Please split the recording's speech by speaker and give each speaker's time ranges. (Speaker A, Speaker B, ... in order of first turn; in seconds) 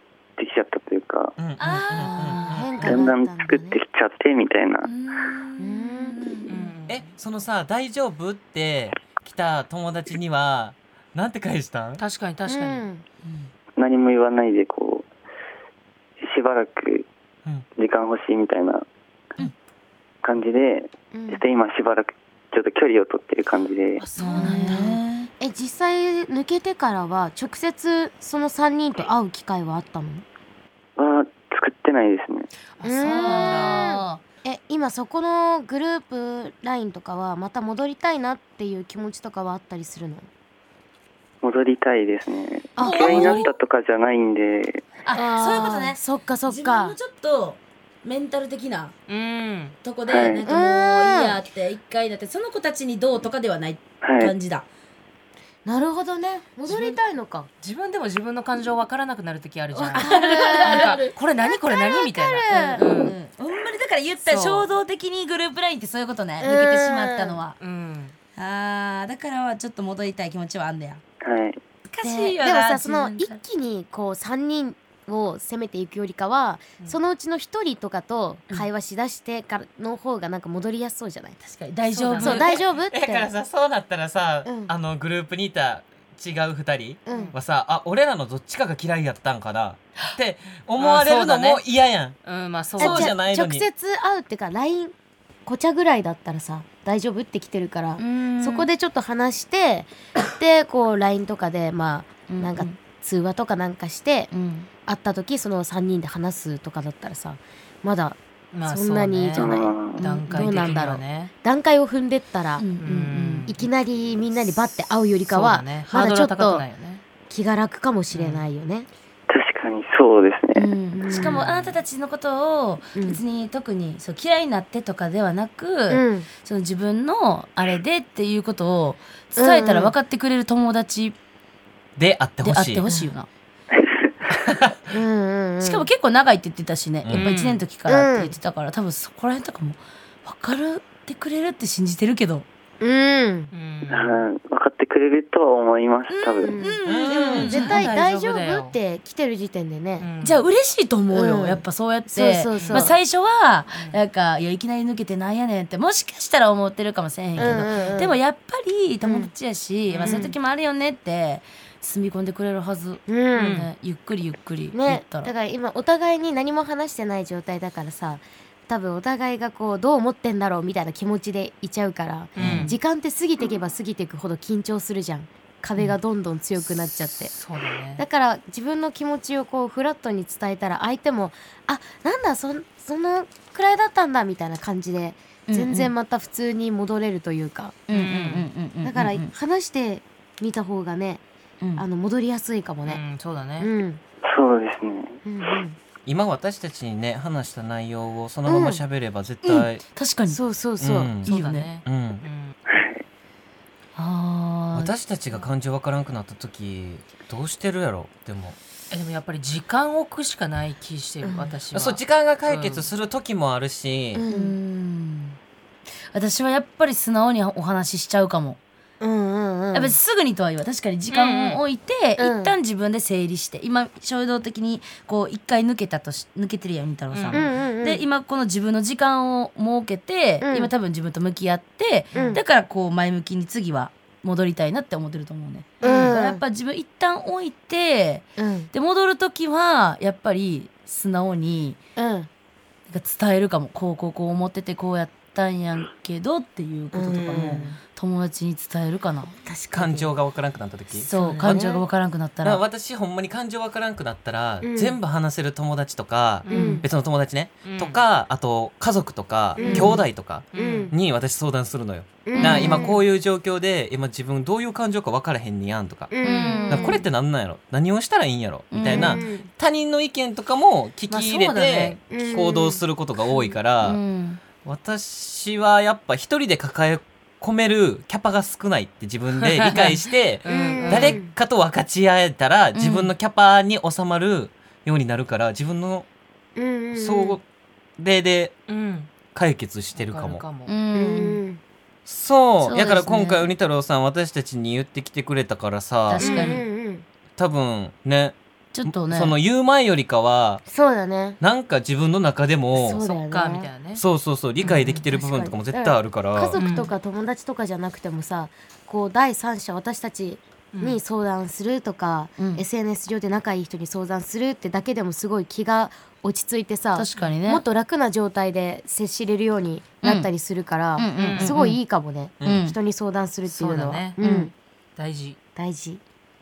Speaker A: 0.4-1.3, 2.8-4.9, 13.8-15.1, 16.2-17.1, 17.8-18.8, 20.2-24.1, 31.0-32.5, 41.4-44.8, 50.1-50.5, 54.0-54.3, 71.2-71.6, 109.3-110.2, 119.3-120.7, 133.7-134.1, 143.9-146.6, 194.3-195.2, 202.7-203.0
Speaker B: 1.4-2.7, 6.9-12.0, 82.2-92.2, 92.8-93.7, 132.0-132.8, 134.3-134.7, 137.0-137.3, 146.8-147.6, 172.4-172.7, 196.1-199.8, 200.8-201.3, 201.8-202.2, 204.7-208.6, 211.7-214.2, 249.7-251.8, 252.4-266.1, 266.7-274.0, 274.6-286.1, 286.9-287.4, 288.0-288.5, 289.3-290.4, 292.1-296.5, 297.4-300.6, 301.4-303.0, 303.9-306.6
Speaker C: 1.6-3.1, 4.8-6.7, 13.2-13.5, 24.1-25.3, 33.0-34.2, 42.8-43.5, 45.0-48.9, 49.8-54.7, 59.7-61.1, 62.5-67.6, 68.3-71.0, 71.9-73.4, 81.4-82.4, 98.0-98.7, 102.3-102.8, 104.3-104.7, 110.0-110.8, 112.6-113.5, 120.5-131.2, 132.4-133.3, 135.6-142.4, 146.1-148.0, 150.2-165.3, 185.5-185.9, 187.9-189.3, 191.6-191.8, 199.4-200.4, 201.2-201.7, 203.9-204.9, 214.2-215.4, 216.1-218.6, 219.7-241.8, 242.9-249.3, 250.9-252.6, 256.5-256.8, 259.6-260.0, 262.4-262.8, 266.2-267.0, 268.7-269.2, 273.8-274.4, 282.7-283.1, 290.7-291.4, 292.6-293.5, 296.1-296.6, 298.7-299.4, 312.4-312.6, 316.9-317.6, 320.0-320.3, 321.0-321.8, 322.4-322.8, 324.2-324.5
Speaker D: 1.9-3.8, 5.6-6.2, 12.4-13.0, 21.1-21.4, 24.3-30.2, 32.8-40.3, 42.8-43.5, 45.1-47.0, 50.4-51.4, 55.6-57.5, 60.0-63.1, 66.4-67.4, 72.0-81.4, 82.1-83.3, 84.4-84.7, 87.0-87.3, 92.8-94.9, 95.5-104.3, 104.8-112.7, 113.5-116.6, 117.3-118.9, 121.0-121.4, 123.0-123.2, 125.9-126.3, 129.3-129.9, 132.9-133.1, 134.9-135.9, 137.8-138.3, 142.8-143.5, 146.4-150.1, 151.1-152.9, 157.4-158.2, 159.0-159.3, 160.0-160.3, 163.1-163.6, 164.7-177.3, 178.0-187.8, 188.8-191.2, 191.8-193.0, 193.6-194.0, 195.2-195.8, 198.4-198.8, 200.3-201.2, 211.2-211.6, 214.1-214.5, 219.0-220.0, 222.2-222.5, 227.3-228.0, 230.4-230.7, 232.1-232.4, 235.8-236.4, 238.4-238.7, 241.9-242.3, 246.9-247.8, 249.4-250.1, 251.1-251.8, 254.6-255.0, 256.5-256.9, 259.6-260.0, 260.6-260.9, 262.2-263.1, 266.1-267.0, 268.8-269.5, 272.1-272.8, 280.4-281.3, 286.6-287.4, 290.9-291.6, 296.2-297.1, 300.7-301.4, 302.7-303.7, 305.1-324.5, 325.6-326.0
Speaker E: 6.5-7.1, 12.0-12.9, 24.2-24.8, 32.7-33.9, 49.1-49.7, 56.7-57.0, 57.6-63.1, 64.2-64.7, 67.6-68.1, 82.0-82.5, 90.8-91.6, 92.2-93.1, 108.5-111.3, 112.8-113.6, 115.3-117.0, 118.1-118.5, 121.1-121.8, 137.1-137.6, 143.5-144.2, 147.4-148.7, 150.0-150.4, 152.6-152.9, 153.7-154.0, 159.9-160.3, 163.3-163.7, 172.4-172.7, 177.3-178.0, 187.9-188.5, 192.8-193.7, 201.3-202.5, 208.9-212.9, 221.1-221.6, 227.1-227.5, 235.8-236.1, 256.4-256.8, 257.6-258.0, 260.5-260.9, 266.2-266.6, 271.1-272.0, 279.4-281.2, 288.7-289.1, 289.9-290.7, 303.0-304.0, 304.6-305.0, 306.5-306.9, 310.7-311.0, 321.1-321.5, 323.4-324.2, 324.9-325.4